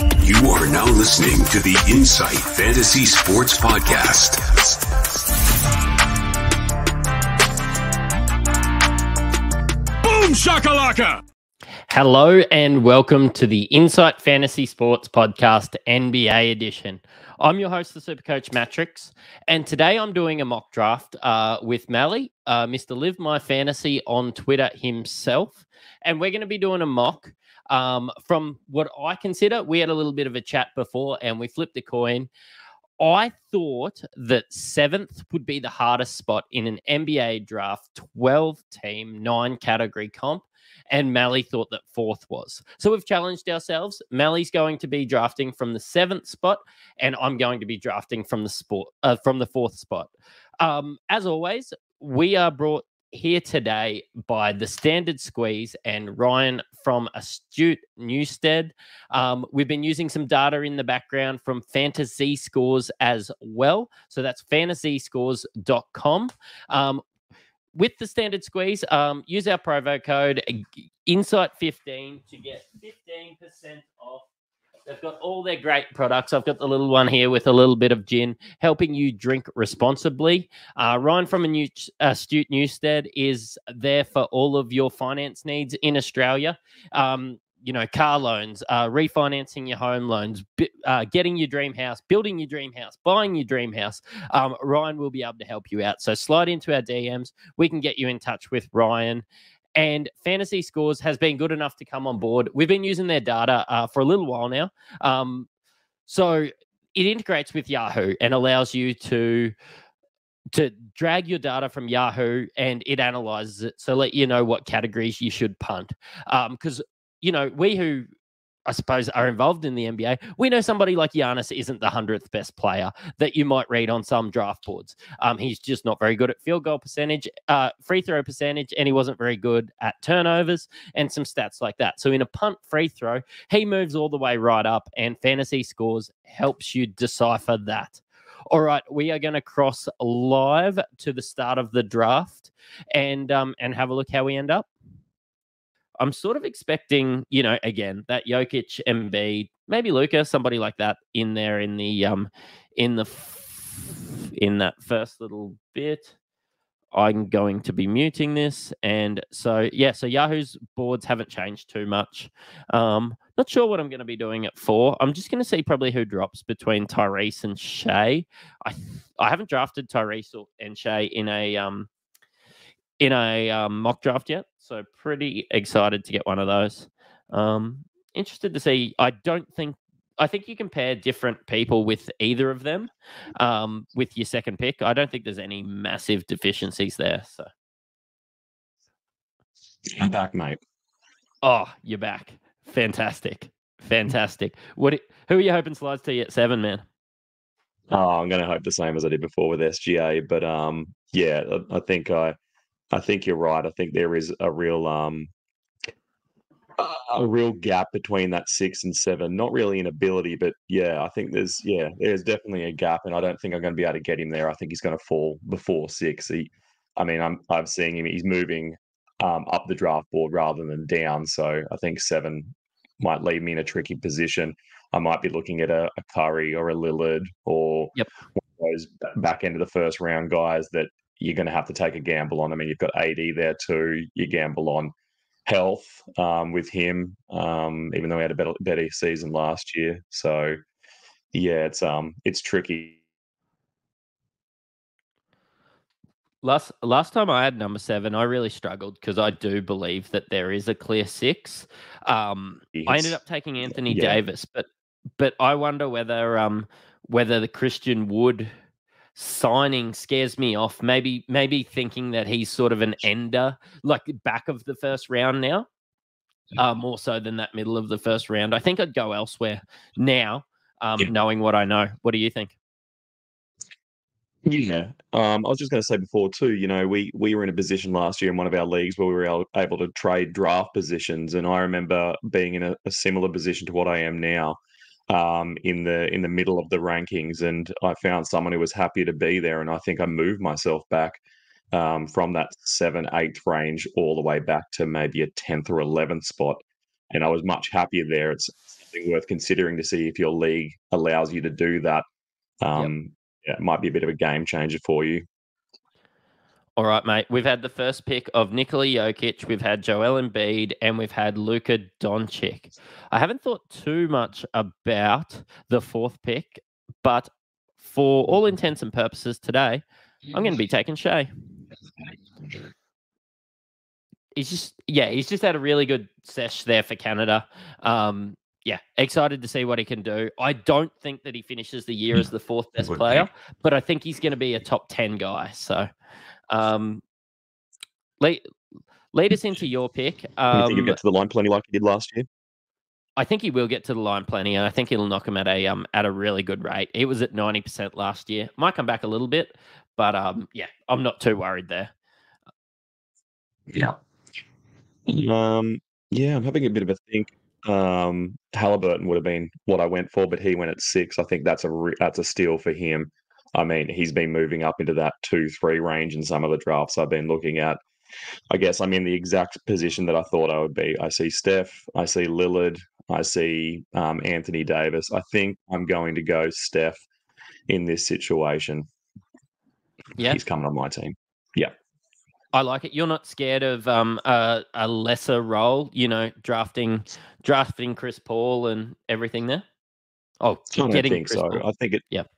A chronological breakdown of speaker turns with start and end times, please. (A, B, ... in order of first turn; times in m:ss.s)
0:00.2-0:04.7 A
0:10.0-0:11.2 A
0:11.9-0:32.3 B
0:33.0-0:50.1 B
0:50.6-1:07.0 B
1:07.7-1:14.2 B
1:14.9-1:39.2 B
1:39.8-1:45.5 B
1:46.1-1:49.5 B
1:50.5-1:58.1 B
1:58.7-2:24.7 B
2:26.0-2:36.1 B
2:36.9-2:51.9 B
2:53.0-3:07.5 B
3:09.8-3:10.6 C
3:11.4-3:16.8 B
3:17.9-3:22.4 C
3:22.9-3:25.3 C
3:26.8-3:54.9 C
3:55.4-4:00.6 C
4:01.3-4:03.0 C
4:06.4-4:14.7 B
4:12.7-4:13.2 C
4:13.7-4:14.2 C
4:15.2-4:18.5 B
4:19.2-4:25.7 B
4:26.6-4:32.5 B
4:34.4-4:44.6 C
4:45.1-4:51.2 C
4:51.7-5:02.0 C
5:02.6-5:05.2 C
5:06.8-5:21.3 B
5:24.4-5:35.9 B
5:32.8-5:33.2 C
5:36.5-5:37.0 B
5:39.1-5:41.0 B
5:40.5-5:42.3 C
5:43.2-5:51.9 B
5:53.7-5:54.0 C
5:55.1-6:07.8 C
6:08.5-6:17.0 C
6:17.7-6:18.8 C
6:20.2-6:21.7 C
6:22.5-6:29.6 B
6:30.4-6:32.3 B
6:30.7-6:32.0 C